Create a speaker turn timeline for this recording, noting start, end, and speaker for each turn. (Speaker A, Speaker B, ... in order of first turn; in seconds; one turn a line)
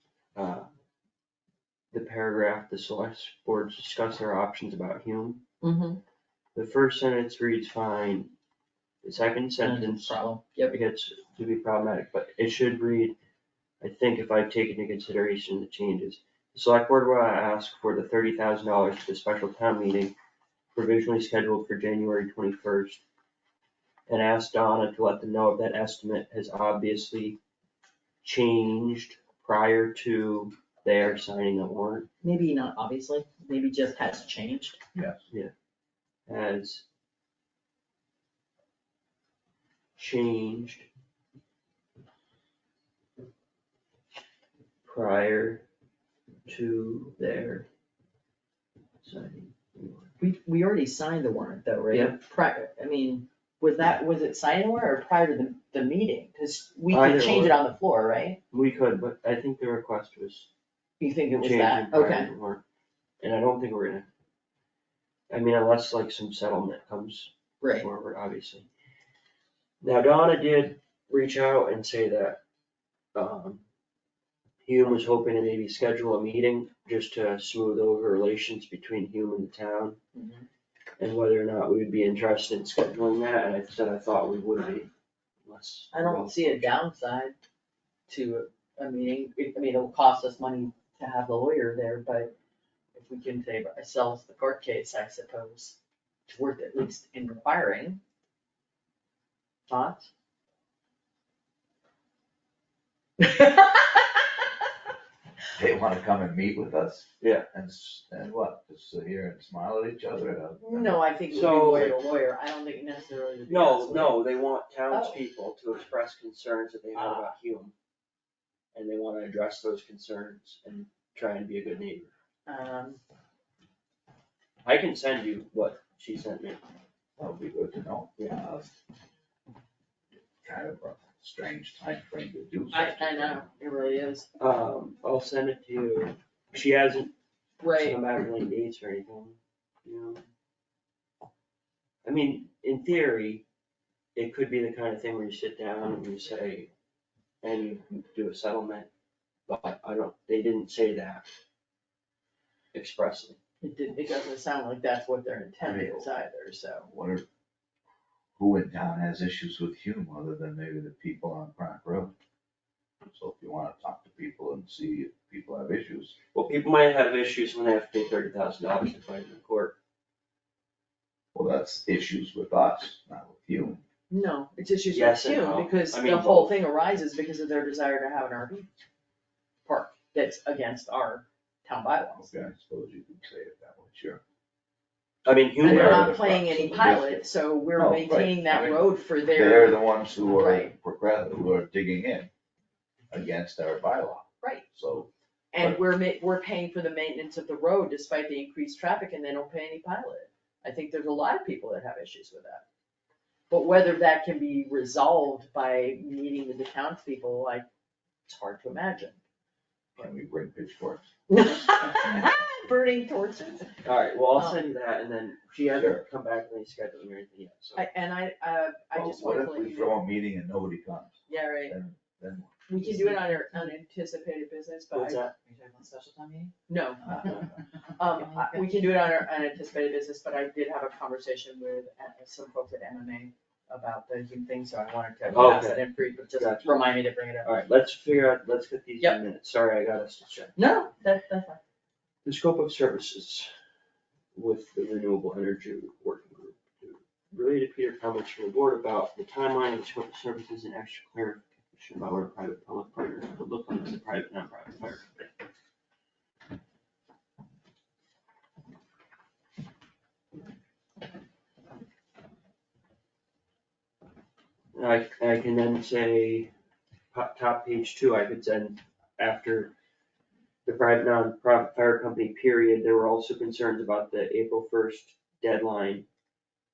Speaker A: 0.3-0.7
Speaker A: 1.9-5.4
Speaker B: 5.6-6.0
Speaker A: 6.5-8.3
Speaker A: 9.0-13.2
Speaker B: 9.6-10.8
Speaker A: 13.8-20.1
Speaker A: 20.7-23.0
Speaker A: 24.1-27.4
Speaker A: 28.2-32.1
Speaker B: 32.2-34.8
Speaker C: 35.0-35.2
Speaker A: 36.3-36.8
Speaker A: 40.0-40.9
Speaker A: 44.9-45.7
Speaker A: 46.5-47.7
Speaker A: 49.0-50.1
Speaker B: 50.2-58.4
Speaker A: 51.9-52.2
Speaker A: 56.9-57.7
Speaker A: 58.5-60.5
Speaker B: 61.0-62.3
Speaker A: 61.3-62.6
Speaker A: 63.2-64.1
Speaker A: 65.3-68.7
Speaker B: 67.6-67.9
Speaker A: 69.8-72.4
Speaker A: 73.2-73.6
Speaker A: 74.7-80.0
Speaker B: 80.2-80.5
Speaker A: 81.0-84.9
Speaker A: 85.5-86.8
Speaker B: 85.9-87.4
Speaker B: 88.1-92.3
Speaker B: 92.9-95.8
Speaker B: 96.3-98.0
Speaker B: 99.7-100.1
Speaker B: 103.2-104.0
Speaker C: 105.6-111.9
Speaker A: 107.2-107.5
Speaker B: 110.6-114.3
Speaker A: 111.3-112.0
Speaker A: 113.5-117.8
Speaker B: 114.9-115.2
Speaker B: 117.0-117.3
Speaker A: 118.7-122.1
Speaker B: 122.5-123.0
Speaker A: 124.7-126.6
Speaker C: 127.2-128.7
Speaker C: 130.4-133.4
Speaker B: 132.7-134.3
Speaker A: 134.4-137.1
Speaker B: 137.6-138.0
Speaker A: 137.7-140.2
Speaker A: 142.0-143.4
Speaker A: 144.2-146.7
Speaker A: 147.4-148.9
Speaker A: 149.5-151.3
Speaker A: 152.7-153.4
Speaker B: 153.6-156.9
Speaker C: 155.6-156.1
Speaker C: 156.9-157.2
Speaker C: 158.4-162.1
Speaker C: 163.1-166.2
Speaker A: 166.3-169.8
Speaker C: 171.3-173.8
Speaker B: 174.1-178.7
Speaker A: 174.9-176.6
Speaker B: 179.7-182.3
Speaker C: 182.2-184.2
Speaker A: 185.2-186.2
Speaker B: 185.6-190.7
Speaker C: 185.6-192.3
Speaker C: 193.1-195.8
Speaker B: 194.4-194.7
Speaker B: 195.5-202.6
Speaker B: 203.5-207.7
Speaker B: 208.3-209.2
Speaker C: 210.0-211.0
Speaker B: 211.3-213.7
Speaker A: 213.8-217.8
Speaker B: 214.3-214.7
Speaker C: 215.7-216.1
Speaker B: 217.8-220.0
Speaker C: 218.9-222.5
Speaker B: 221.3-221.8
Speaker B: 222.7-225.3
Speaker D: 222.8-223.7
Speaker A: 224.9-225.3
Speaker D: 225.3-226.6
Speaker B: 226.7-227.4
Speaker C: 227.1-227.4
Speaker D: 227.1-228.9
Speaker B: 228.0-237.5
Speaker A: 235.3-235.8
Speaker A: 236.3-240.6
Speaker B: 240.6-241.6
Speaker A: 242.2-243.5
Speaker A: 244.3-255.3
Speaker A: 264.8-266.5
Speaker A: 267.1-269.7
Speaker A: 270.6-276.1